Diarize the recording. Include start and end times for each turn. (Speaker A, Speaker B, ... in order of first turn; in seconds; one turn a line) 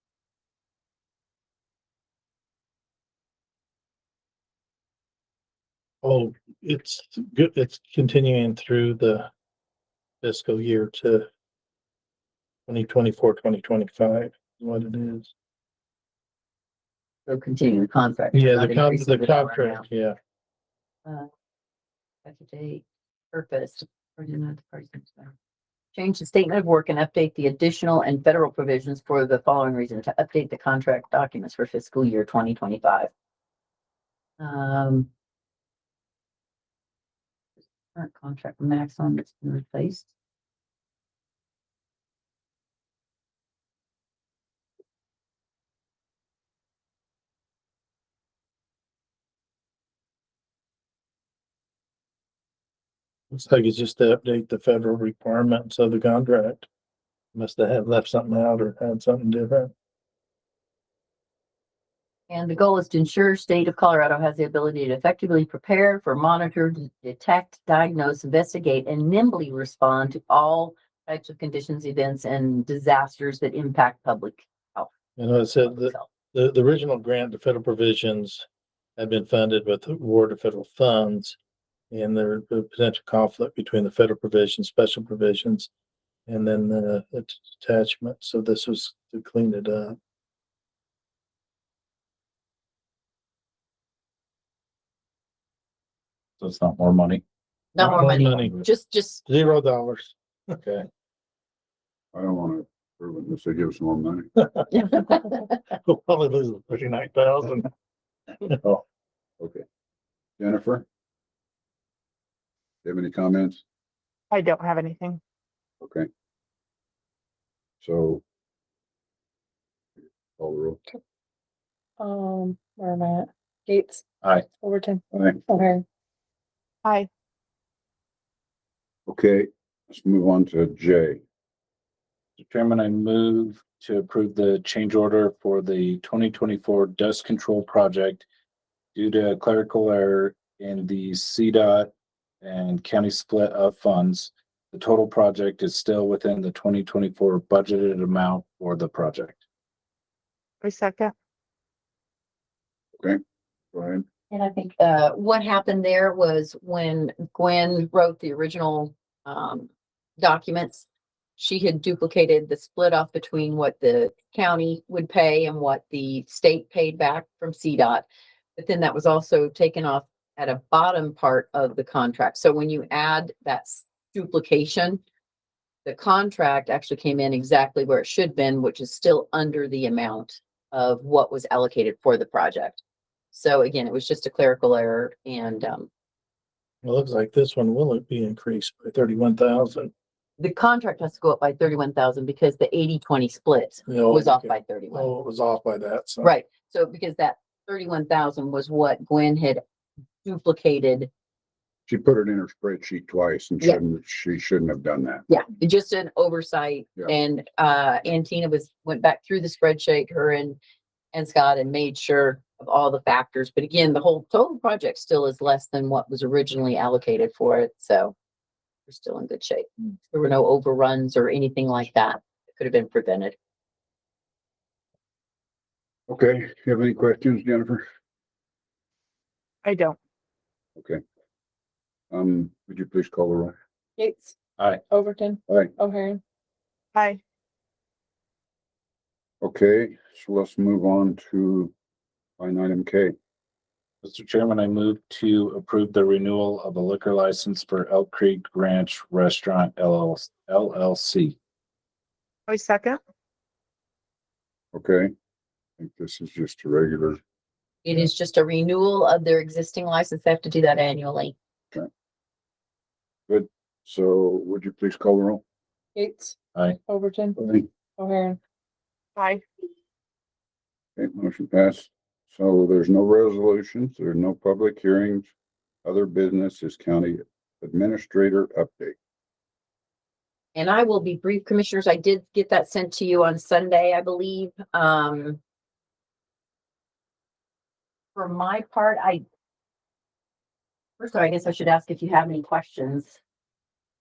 Speaker A: 6.0-9.3
Speaker A: 10.2-11.3
Speaker A: 12.7-15.3
Speaker B: 17.3-19.9
Speaker A: 18.3-20.1
Speaker B: 22.2-25.3
Speaker B: 25.9-33.1
Speaker B: 34.4-35.1
Speaker B: 37.9-40.1
Speaker A: 53.3-56.7
Speaker A: 57.3-59.7
Speaker B: 62.3-74.9
Speaker A: 75.2-78.5
Speaker B: 75.6-76.1
Speaker A: 79.0-81.4
Speaker A: 81.9-85.7
Speaker A: 86.3-90.0
Speaker C: 96.4-97.2
Speaker B: 97.7-99.2
Speaker A: 97.8-100.8
Speaker D: 102.1-104.3
Speaker B: 104.7-105.6
Speaker A: 105.7-107.7
Speaker A: 108.4-108.7
Speaker D: 110.4-110.8
Speaker D: 112.8-113.6
Speaker E: 114.3-115.2
Speaker D: 115.8-116.1
Speaker D: 117.8-118.2
Speaker D: 120.4-120.8
Speaker F: 122.0-124.0
Speaker F: 124.6-125.8
Speaker D: 125.1-125.4
Speaker E: 126.8-127.1
Speaker D: 129.1-131.2
Speaker C: 132.4-138.2
Speaker C: 138.9-149.4
Speaker E: 150.6-151.1
Speaker D: 153.7-154.0
Speaker B: 154.3-175.0
Speaker B: 175.8-182.8
Speaker B: 183.3-185.9
Speaker A: 186.8-189.9
Speaker B: 190.4-195.1
Speaker A: 193.9-196.3
Speaker B: 196.2-199.6
Speaker B: 200.2-201.1
Speaker D: 201.9-205.2
Speaker B: 205.3-210.6
Speaker B: 211.1-218.1
Speaker B: 218.9-223.3
Speaker D: 226.1-227.8
Speaker E: 229.6-230.0
Speaker D: 230.8-231.0
Speaker D: 232.1-233.6
Speaker F: 234.0-234.3
Speaker F: 234.9-236.2
Speaker D: 235.5-235.7
Speaker E: 236.9-237.2
Speaker D: 239.4-241.7
Speaker D: 242.4-243.1
Speaker C: 244.0-251.3
Speaker E: 252.5-253.0
Speaker D: 254.7-255.1
Speaker D: 255.8-257.2
Speaker B: 257.8-261.3
Speaker D: 263.3-265.4
Speaker F: 265.9-266.4
Speaker F: 266.9-267.4
Speaker D: 267.4-267.6
Speaker F: 268.0-268.4
Speaker E: 269.2-269.4
Speaker D: 271.0-275.3
Speaker D: 275.8-278.9
Speaker B: 280.5-285.4
Speaker B: 288.1-289.2
Speaker B: 291.0-293.2